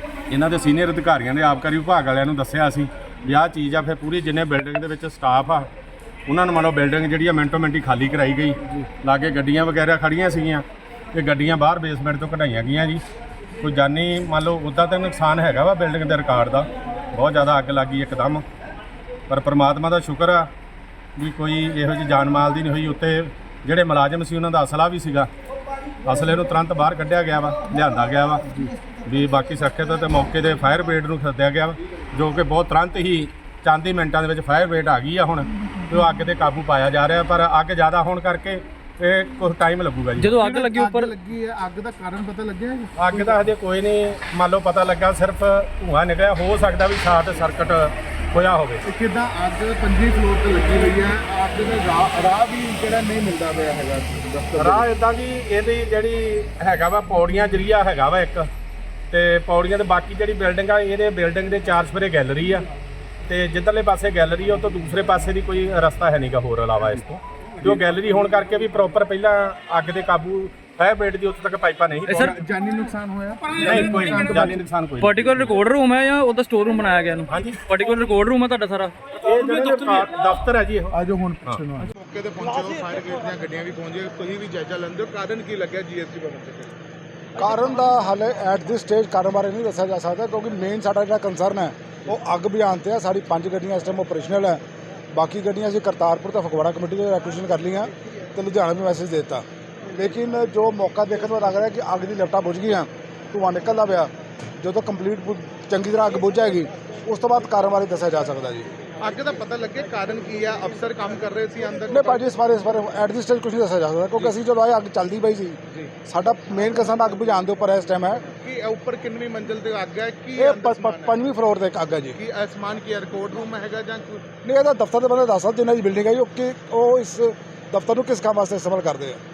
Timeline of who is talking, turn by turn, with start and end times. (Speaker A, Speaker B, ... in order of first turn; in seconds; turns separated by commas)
Speaker A: 0.3-5.7, Speaker A: 6.3-13.0, Speaker A: 13.6-18.4, Speaker A: 19.3-20.5, Speaker A: 21.2-25.3, Speaker A: 26.1-28.4, Speaker A: 29.1-40.4, Speaker B: 40.2-41.1, Speaker C: 40.4-43.5, Speaker A: 43.0-48.8, Speaker C: 48.9-54.9, Speaker A: 54.6-58.5, Speaker A: 59.1-62.6, Speaker A: 63.3-72.3, Speaker B: 72.1-72.4, Speaker C: 72.1-74.6, Speaker A: 73.6-75.5, Speaker B: 75.0-79.1, Speaker A: 77.3-77.7, Speaker A: 79.2-81.6, Speaker C: 80.9-86.8, Speaker D: 87.4-94.6, Speaker D: 95.1-108.7, Speaker C: 109.0-112.3, Speaker D: 111.9-118.3, Speaker C: 118.3-121.3, Speaker D: 120.4-122.2, Speaker C: 122.2-124.3, Speaker D: 124.4-129.2